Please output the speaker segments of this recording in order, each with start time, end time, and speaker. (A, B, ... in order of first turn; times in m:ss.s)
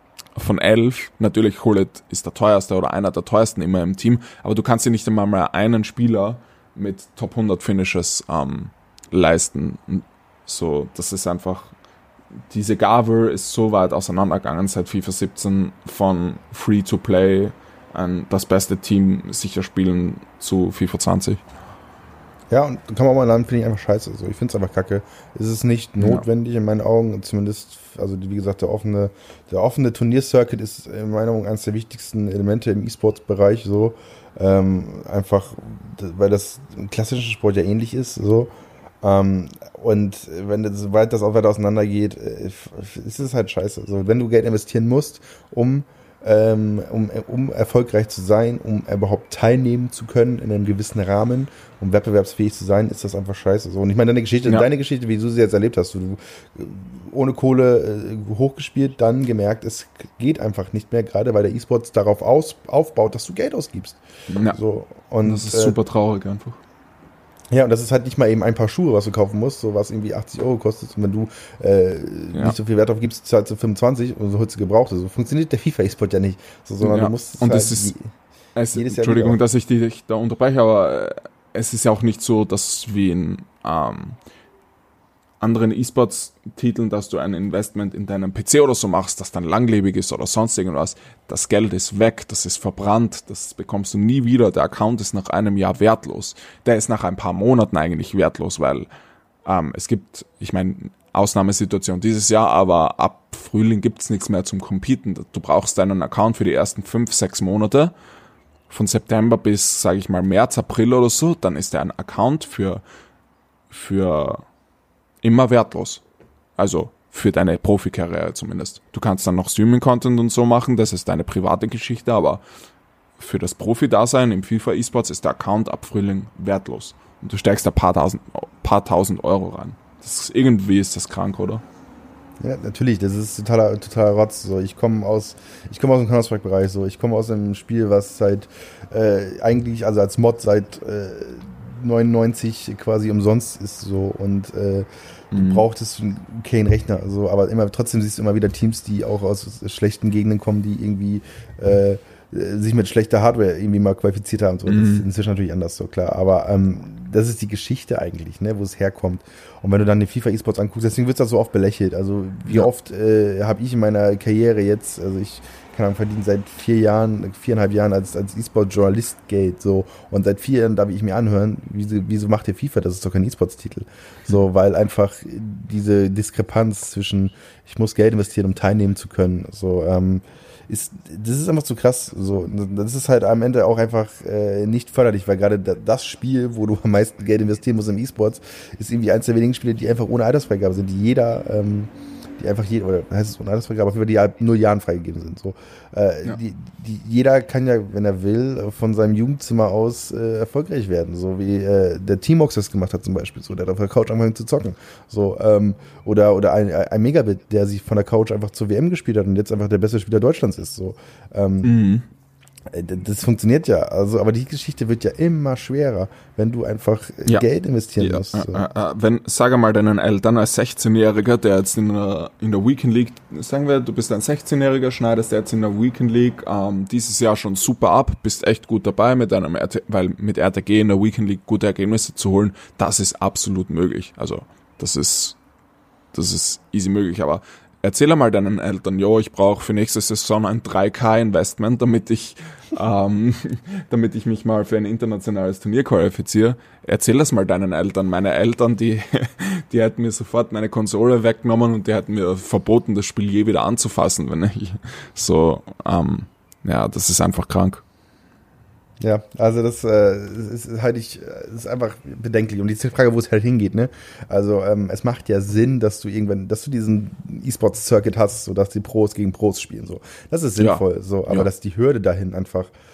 0:00.4-0:11.7 A
0:12.5-0:21.4 A
0:22.5-0:38.5 B
0:26.0-0:26.2 A
0:39.0-1:04.0 B
1:04.3-1:04.6 A
1:04.5-1:05.8 B
1:05.2-1:06.6 A
1:07.5-1:18.0 B
1:16.8-1:17.9 A
1:18.6-1:24.2 A
1:18.7-1:19.4 B
1:25.4-1:38.9 A
1:39.4-1:47.9 A
1:48.7-1:52.8 A
1:53.7-1:54.4 A
1:55.2-1:56.0 A
1:56.6-2:02.4 A
2:03.2-2:11.6 A
2:12.4-3:31.7 B
2:25.3-2:25.7 A
2:34.7-2:35.0 A
3:31.6-3:32.1 A
3:32.7-3:38.6 B
3:38.0-3:55.4 A
3:56.1-4:17.8 A
4:19.0-4:32.7 B
4:30.6-4:31.5 A